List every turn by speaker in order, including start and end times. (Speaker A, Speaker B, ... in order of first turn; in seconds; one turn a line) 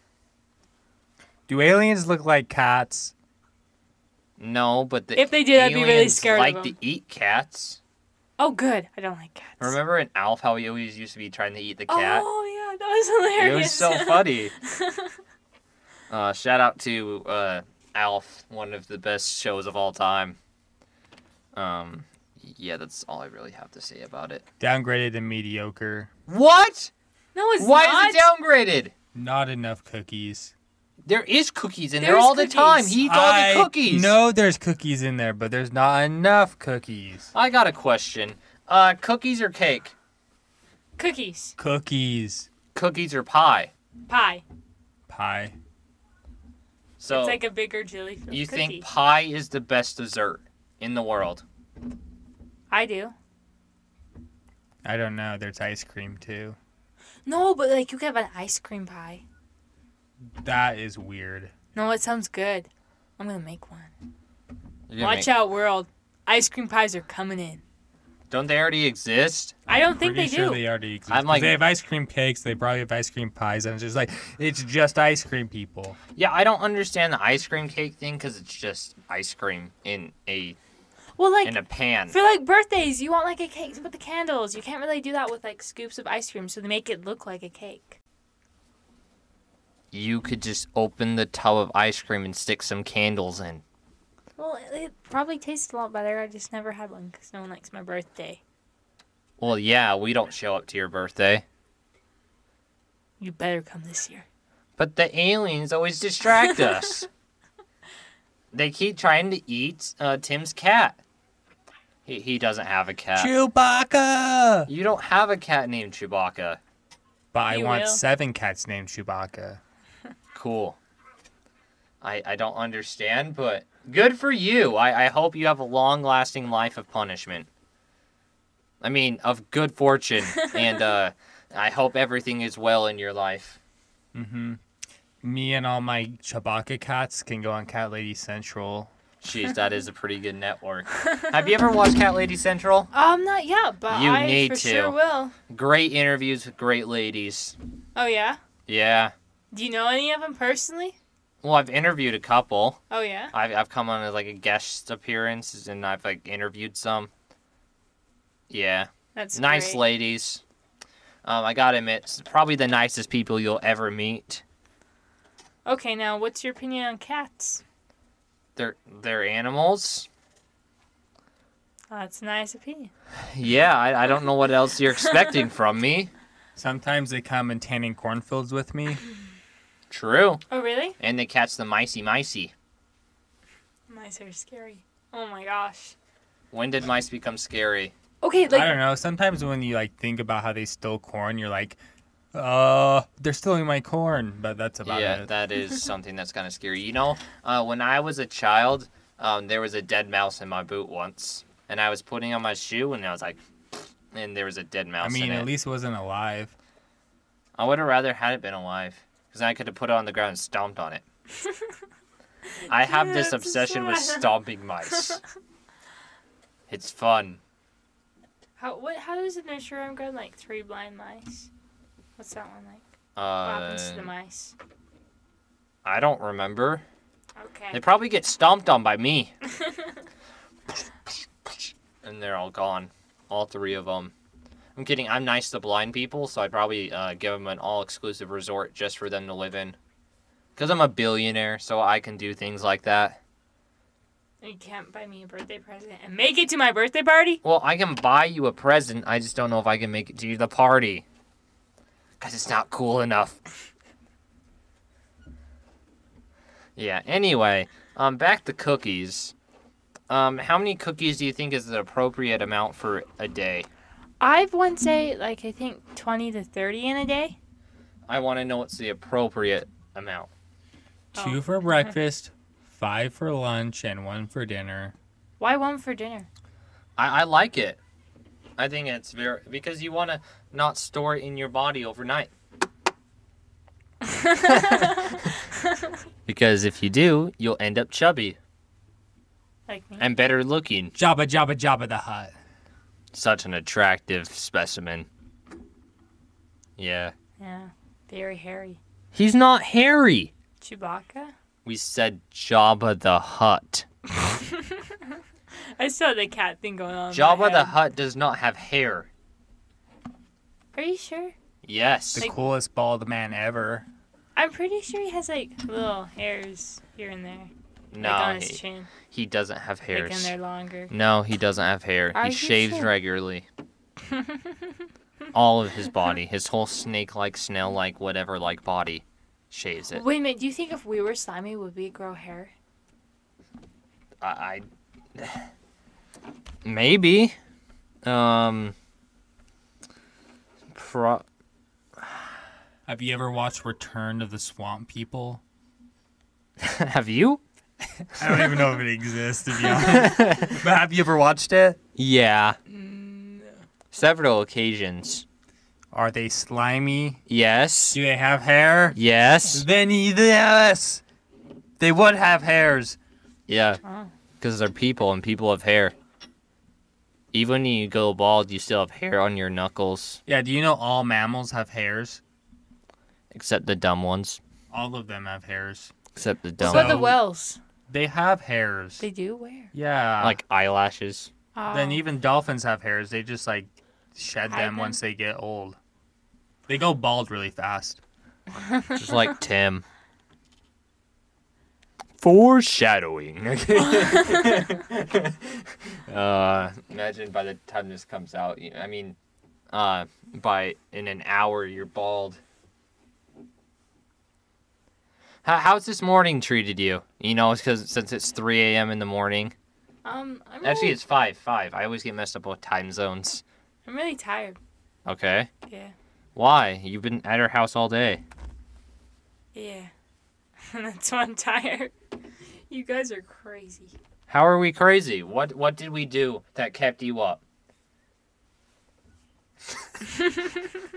Speaker A: 1.5-3.1
Speaker B: 4.4-7.8
Speaker C: 5.1-6.8
Speaker C: 8.4-9.8
Speaker B: 9.6-12.2
Speaker C: 11.9-15.2
Speaker B: 13.3-14.5
Speaker B: 16.1-20.4
Speaker B: 21.5-24.4
Speaker A: 24.6-26.1
Speaker B: 26.3-26.9
Speaker C: 27.3-28.3
Speaker B: 27.6-28.9
Speaker A: 29.1-30.5
Speaker B: 31.1-34.1
Speaker C: 32.0-33.0
Speaker A: 33.0-37.3
Speaker B: 37.3-39.9
Speaker C: 41.0-41.5
Speaker A: 41.6-42.5
Speaker B: 42.7-43.7
Speaker C: 44.1-44.4
Speaker A: 45.1-45.5
Speaker B: 47.0-47.4
Speaker C: 47.1-48.8
Speaker B: 48.3-51.4
Speaker C: 52.7-53.1
Speaker A: 54.8-56.6
Speaker C: 57.2-59.2
Speaker A: 60.4-61.5
Speaker C: 61.8-63.9
Speaker B: 64.9-65.3
Speaker C: 65.0-67.6
Speaker B: 68.3-69.5
Speaker C: 69.7-70.6
Speaker A: 69.7-76.0
Speaker B: 71.1-71.6
Speaker B: 76.1-80.6
Speaker C: 81.2-88.0
Speaker B: 81.4-82.2
Speaker B: 89.9-93.6
Speaker C: 94.4-98.4
Speaker B: 99.4-101.4
Speaker C: 103.2-104.2
Speaker B: 104.8-107.1
Speaker C: 106.4-106.8
Speaker B: 108.5-111.0
Speaker B: 112.0-113.3
Speaker A: 113.2-114.7
Speaker B: 114.7-116.6
Speaker A: 117.3-119.6
Speaker C: 117.5-118.0
Speaker B: 120.3-120.8
Speaker B: 122.0-127.5
Speaker B: 128.8-133.6
Speaker A: 134.1-134.6
Speaker A: 135.2-138.9
Speaker B: 139.2-142.9
Speaker C: 142.9-145.3
Speaker B: 143.9-145.0
Speaker B: 145.5-147.5
Speaker C: 148.0-148.4
Speaker B: 148.7-149.1
Speaker C: 149.5-151.0
Speaker B: 151.4-152.8
Speaker C: 152.9-153.3
Speaker B: 153.3-157.1
Speaker B: 158.5-160.4
Speaker C: 159.1-159.8
Speaker B: 161.2-164.4
Speaker C: 165.7-167.6
Speaker B: 168.6-170.1
Speaker C: 171.9-172.9
Speaker B: 173.3-176.1
Speaker A: 176.6-179.0
Speaker B: 179.9-180.4
Speaker C: 180.5-181.0
Speaker B: 181.0-182.5
Speaker C: 183.9-185.9
Speaker B: 186.5-187.9
Speaker C: 188.2-188.8
Speaker A: 188.5-191.8
Speaker A: 192.3-195.3
Speaker B: 194.8-203.4
Speaker B: 204.1-205.5
Speaker A: 205.0-206.5
Speaker B: 207.6-211.0
Speaker C: 212.7-215.2
Speaker B: 212.7-215.2
Speaker B: 216.7-217.4
Speaker C: 218.6-221.5
Speaker C: 222.2-222.8
Speaker B: 223.2-224.1
Speaker C: 223.4-224.5
Speaker B: 225.8-226.8
Speaker C: 227.4-227.8
Speaker B: 227.7-229.3
Speaker B: 232.0-234.1
Speaker B: 234.8-239.8
Speaker B: 240.6-243.2
Speaker C: 244.4-247.4
Speaker B: 247.4-251.0
Speaker B: 252.2-253.4
Speaker B: 256.8-259.4
Speaker B: 260.1-263.7
Speaker C: 264.2-267.4
Speaker B: 268.1-270.3
Speaker A: 271.1-274.9
Speaker C: 271.1-271.9
Speaker C: 275.4-276.3
Speaker B: 277.0-277.8
Speaker B: 278.6-282.3
Speaker C: 284.2-285.3
Speaker B: 284.5-285.3
Speaker B: 286.2-288.4
Speaker C: 289.7-290.0
Speaker B: 290.0-290.9
Speaker A: 290.9-292.4
Speaker B: 293.1-295.1
Speaker B: 296.8-297.1
Speaker C: 297.4-298.8
Speaker B: 299.1-300.3
Speaker C: 300.6-301.3
Speaker B: 301.6-303.9
Speaker C: 304.2-305.0
Speaker C: 305.8-307.7
Speaker B: 307.1-309.1
Speaker C: 310.8-311.3
Speaker B: 311.6-312.3
Speaker A: 312.1-313.9
Speaker C: 314.4-318.9
Speaker B: 317.9-320.3
Speaker C: 319.9-320.9
Speaker B: 320.9-323.5
Speaker C: 322.1-322.9
Speaker C: 324.1-324.6
Speaker B: 325.3-330.0
Speaker C: 329.9-332.5
Speaker B: 334.2-335.5
Speaker B: 336.6-337.4
Speaker B: 338.0-338.8
Speaker B: 340.7-341.2
Speaker A: 342.9-345.4
Speaker B: 346.6-347.4
Speaker A: 348.1-351.8
Speaker B: 349.7-350.6
Speaker B: 352.0-352.6
Speaker C: 352.7-353.6
Speaker B: 353.9-355.2
Speaker A: 355.9-357.2
Speaker B: 357.3-358.0
Speaker A: 357.9-359.0
Speaker B: 358.9-359.7
Speaker A: 359.5-361.0
Speaker A: 361.8-363.0
Speaker B: 363.5-363.8
Speaker C: 363.8-364.1
Speaker B: 364.4-365.9
Speaker B: 367.3-370.2
Speaker A: 370.3-372.2
Speaker B: 373.3-374.4
Speaker A: 374.7-375.9
Speaker B: 376.1-377.1
Speaker A: 376.6-377.2
Speaker C: 376.6-377.6
Speaker A: 377.9-379.0
Speaker C: 379.0-379.7
Speaker A: 379.7-380.4
Speaker B: 380.2-381.3
Speaker C: 381.5-382.0
Speaker A: 381.7-385.8
Speaker C: 384.5-385.0
Speaker A: 386.7-388.0
Speaker C: 388.6-389.1
Speaker B: 388.9-389.9
Speaker B: 392.2-399.1
Speaker C: 394.0-394.3
Speaker B: 399.7-402.4
Speaker B: 405.4-409.5
Speaker C: 410.0-411.0
Speaker B: 410.6-413.4
Speaker C: 413.9-414.6
Speaker B: 415.1-415.5
Speaker C: 415.7-415.9
Speaker B: 416.4-418.2
Speaker C: 419.5-419.9
Speaker C: 420.7-421.9
Speaker C: 422.7-423.9
Speaker B: 424.3-427.4